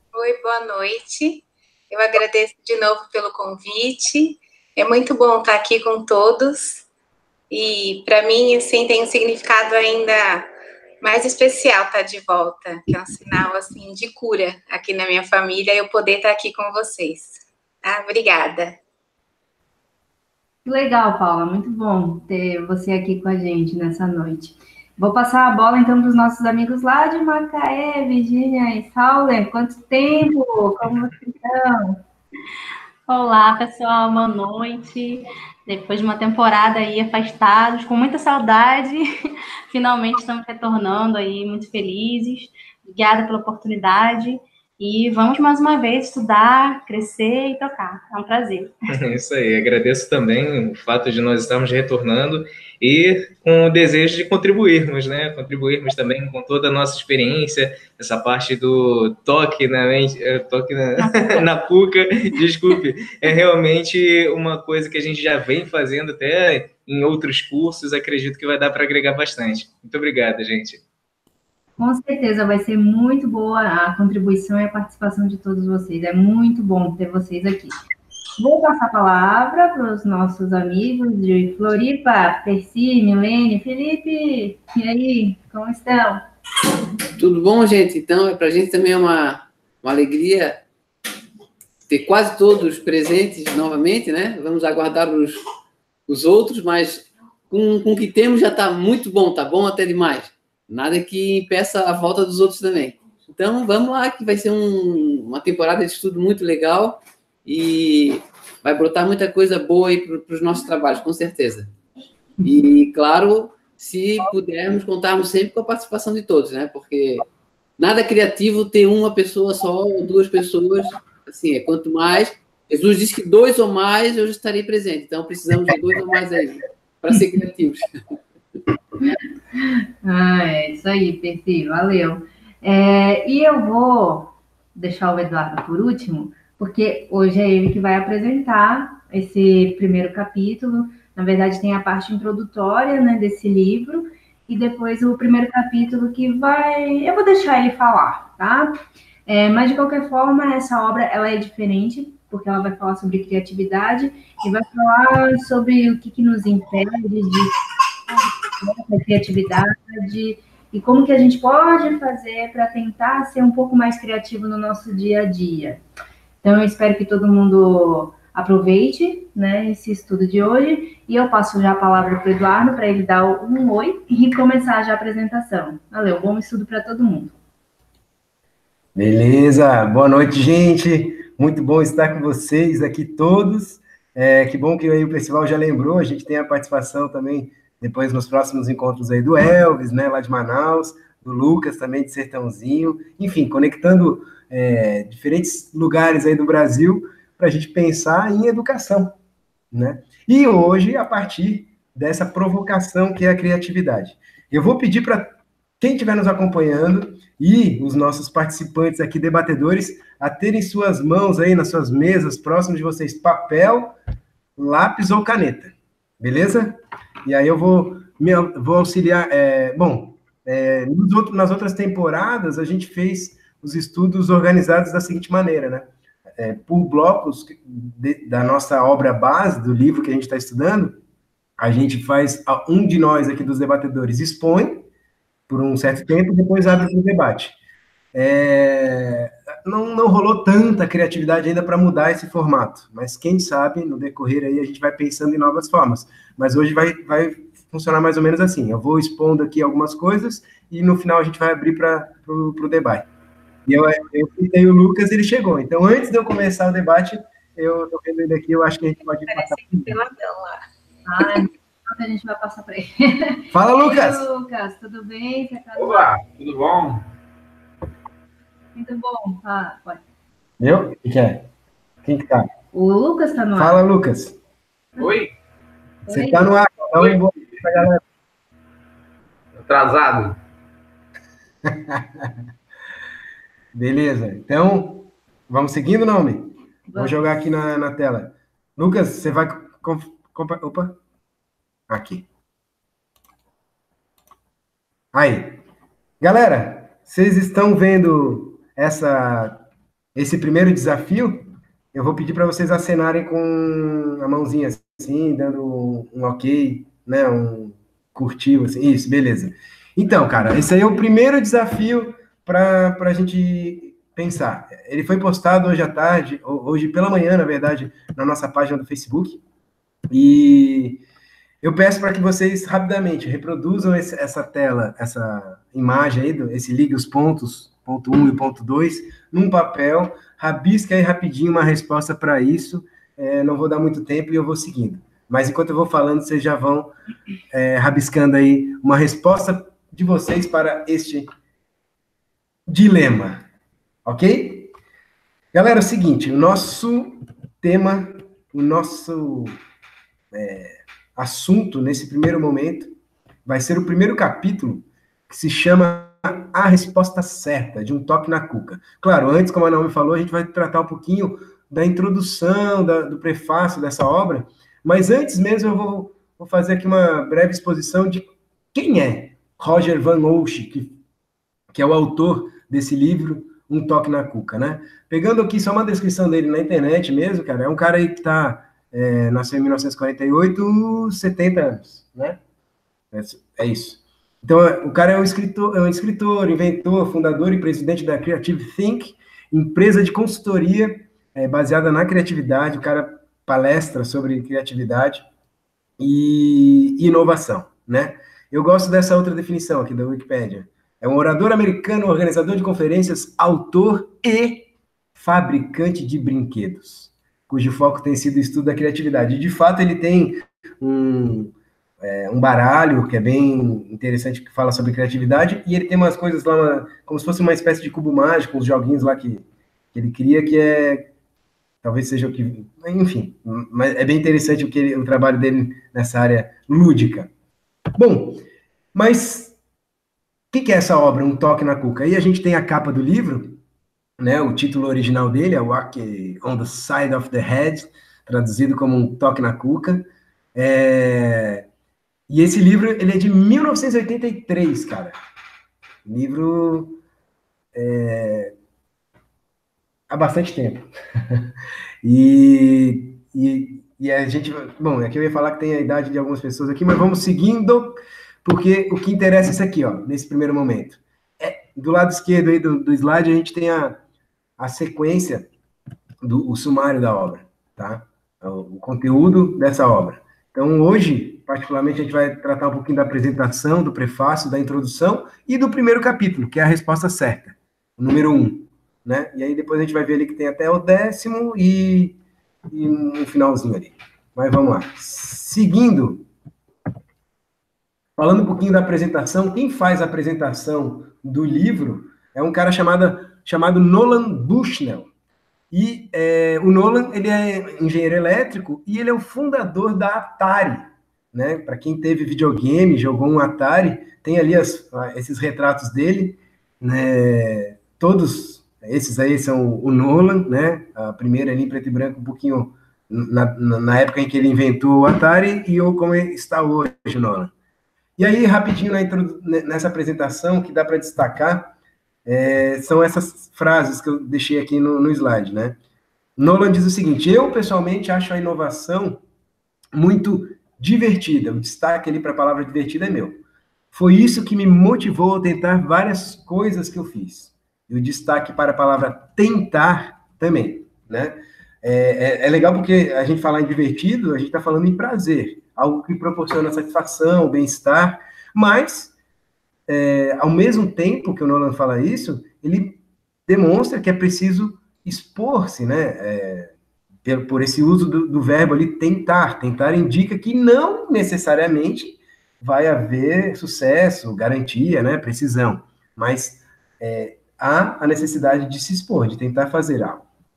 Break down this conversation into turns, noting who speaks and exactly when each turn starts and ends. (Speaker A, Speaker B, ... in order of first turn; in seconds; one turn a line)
Speaker A: 0.1-6.8
Speaker A: 7.5-18.8
Speaker B: 20.6-32.0
Speaker C: 33.1-48.7
Speaker D: 48.9-70.8
Speaker B: 71.8-77.8
Speaker B: 78.4-86.2
Speaker E: 87.2-90.6
Speaker E: 91.9-95.4
Speaker E: 96.1-111.7
Speaker E: 112.4-117.3
Speaker E: 117.8-127.9
Speaker B: 130.0-157.6
Speaker B: 158.6-165.8
Speaker B: 166.4-177.3
Speaker F: 178.9-199.2
Speaker F: 199.7-213.9
Speaker F: 214.6-231.0
Speaker F: 231.6-234.9
Speaker F: 235.5-237.6
Speaker F: 238.1-253.1
Speaker F: 253.7-260.0
Speaker A: 259.9-260.6
Speaker B: 261.1-266.1
Speaker F: 263.5-264.3
Speaker G: 265.8-267.0
Speaker B: 268.7-270.0
Speaker F: 270.6-271.5
Speaker F: 272.0-272.5
Speaker B: 272.7-273.8
Speaker F: 273.5-274.4
Speaker G: 275.0-275.3
Speaker B: 276.1-276.4
Speaker F: 276.1-278.0
Speaker G: 279.6-280.4
Speaker F: 281.6-282.3
Speaker F: 283.7-291.0
Speaker B: 286.9-287.2
Speaker F: 291.9-292.2
Speaker F: 295.1-295.6
Speaker F: 296.2-299.6
Speaker F: 300.1-319.4
Speaker F: 320.1-321.0
Speaker F: 321.6-336.9
Speaker F: 337.5-341.3
Speaker F: 342.7-343.4
Speaker F: 344.0-344.7
Speaker F: 345.5-349.6
Speaker F: 350.3-352.9
Speaker F: 353.4-370.9
Speaker F: 371.7-382.4
Speaker F: 383.1-395.2
Speaker F: 396.0-421.1
Speaker F: 421.8-427.3
Speaker F: 427.9-428.4
Speaker F: 428.9-429.5
Speaker F: 430.5-433.6
Speaker F: 434.2-441.6
Speaker F: 442.3-445.1
Speaker F: 446.0-447.0
Speaker F: 447.7-448.5
Speaker F: 450.1-451.5
Speaker F: 452.0-464.0
Speaker F: 464.6-465.5
Speaker F: 466.2-482.2
Speaker F: 482.7-486.2
Speaker F: 488.2-495.1
Speaker F: 495.7-517.5
Speaker F: 518.2-521.7
Speaker F: 522.2-525.8
Speaker F: 526.4-529.2
Speaker F: 529.9-533.4
Speaker F: 533.9-549.1
Speaker F: 549.9-556.7
Speaker F: 557.2-570.2